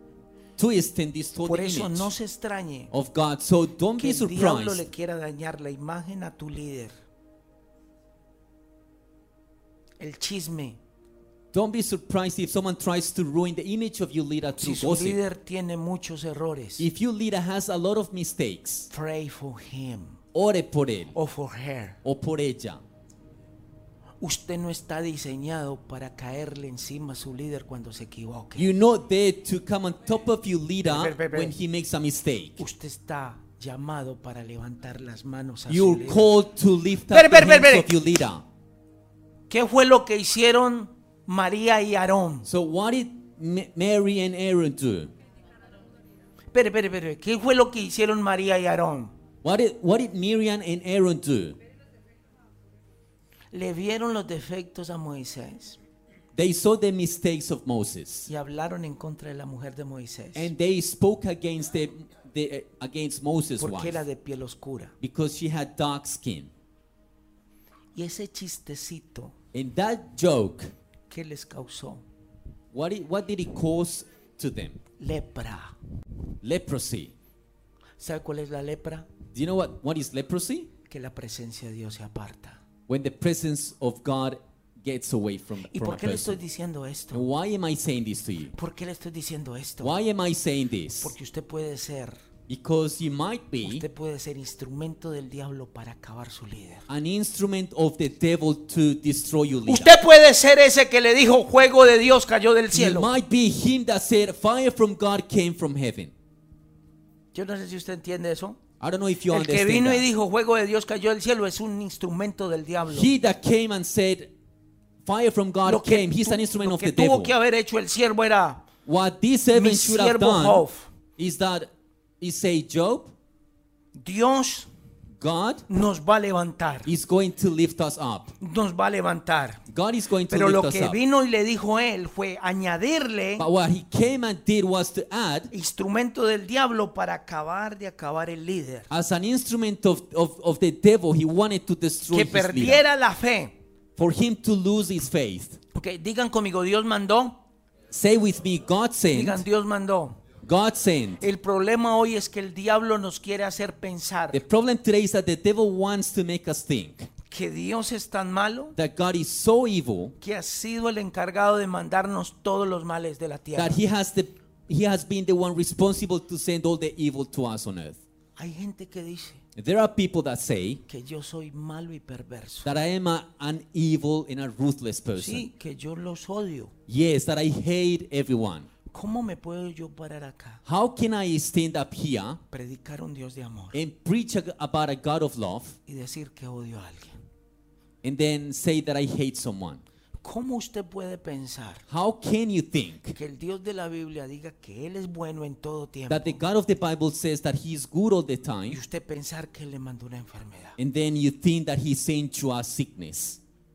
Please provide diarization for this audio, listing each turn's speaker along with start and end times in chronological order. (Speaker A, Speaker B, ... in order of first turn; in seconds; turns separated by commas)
Speaker A: 0.6-2.1, Speaker B: 1.4-2.9, Speaker A: 2.9-4.9, Speaker B: 4.0-6.9, Speaker B: 10.0-10.8, Speaker A: 11.5-15.2, Speaker B: 14.6-16.9, Speaker A: 16.8-18.9, Speaker B: 18.9-20.2, Speaker A: 20.3-21.1, Speaker B: 21.1-22.0, Speaker A: 22.0-22.8, Speaker B: 24.2-28.7, Speaker A: 28.6-32.6, Speaker B: 30.8-31.5, Speaker B: 32.6-36.3, Speaker A: 35.7-38.4, Speaker B: 37.1-38.0, Speaker B: 39.5-42.5, Speaker A: 42.5-45.1, Speaker B: 46.5-49.1, Speaker A: 49.4-51.6, Speaker B: 53.5-55.8, Speaker A: 56.4-58.3, Speaker B: 58.3-60.5, Speaker A: 60.4-64.0, Speaker B: 63.6-65.0, Speaker A: 65.0-66.5, Speaker B: 68.0-69.4, Speaker A: 69.5-70.7, Speaker B: 71.1-72.0, Speaker A: 72.7-74.8, Speaker B: 75.0-75.8, Speaker A: 76.4-77.1, Speaker B: 78.0-79.1, Speaker A: 79.3-80.7, Speaker B: 80.9-82.6, Speaker A: 82.9-86.4, Speaker B: 85.6-87.3, Speaker A: 87.1-88.5, Speaker B: 88.5-90.0, Speaker A: 89.8-91.1, Speaker B: 91.0-92.2, Speaker A: 92.5-93.8, Speaker B: 93.6-96.9, Speaker A: 96.9-100.0, Speaker B: 99.7-103.1, Speaker A: 102.7-106.1, Speaker B: 107.3-108.6, Speaker A: 108.8-110.1, Speaker B: 109.3-113.1, Speaker A: 112.9-114.3, Speaker A: 115.0-117.3, Speaker B: 115.6-118.7, Speaker A: 118.9-120.6, Speaker B: 119.5-120.9, Speaker A: 121.2-123.1, Speaker B: 123.9-124.7, Speaker A: 125.2-125.7, Speaker B: 125.7-126.9, Speaker A: 126.9-128.3, Speaker B: 128.4-129.6, Speaker A: 129.7-131.0, Speaker B: 130.3-133.5, Speaker A: 133.4-135.5, Speaker B: 135.5-138.9, Speaker A: 138.9-142.8, Speaker B: 142.1-143.6, Speaker A: 143.9-145.6, Speaker B: 145.7-147.4, Speaker A: 147.9-149.4, Speaker B: 149.1-150.2, Speaker A: 150.4-151.2, Speaker B: 151.2-154.4, Speaker A: 154.3-157.1, Speaker B: 157.3-158.8, Speaker A: 158.8-160.2, Speaker B: 160.2-163.8, Speaker A: 163.6-168.0, Speaker B: 168.4-169.4, Speaker A: 169.6-170.8, Speaker B: 170.9-172.7, Speaker A: 172.6-175.4, Speaker B: 175.2-176.7, Speaker A: 176.9-178.7, Speaker B: 178.9-180.6, Speaker A: 180.7-182.4, Speaker B: 182.5-183.8, Speaker A: 183.7-185.8, Speaker B: 185.9-187.2, Speaker A: 188.0-189.8, Speaker B: 190.2-191.9, Speaker A: 191.9-193.1, Speaker B: 193.1-196.4, Speaker A: 196.1-198.8, Speaker B: 198.7-200.8, Speaker A: 200.8-203.4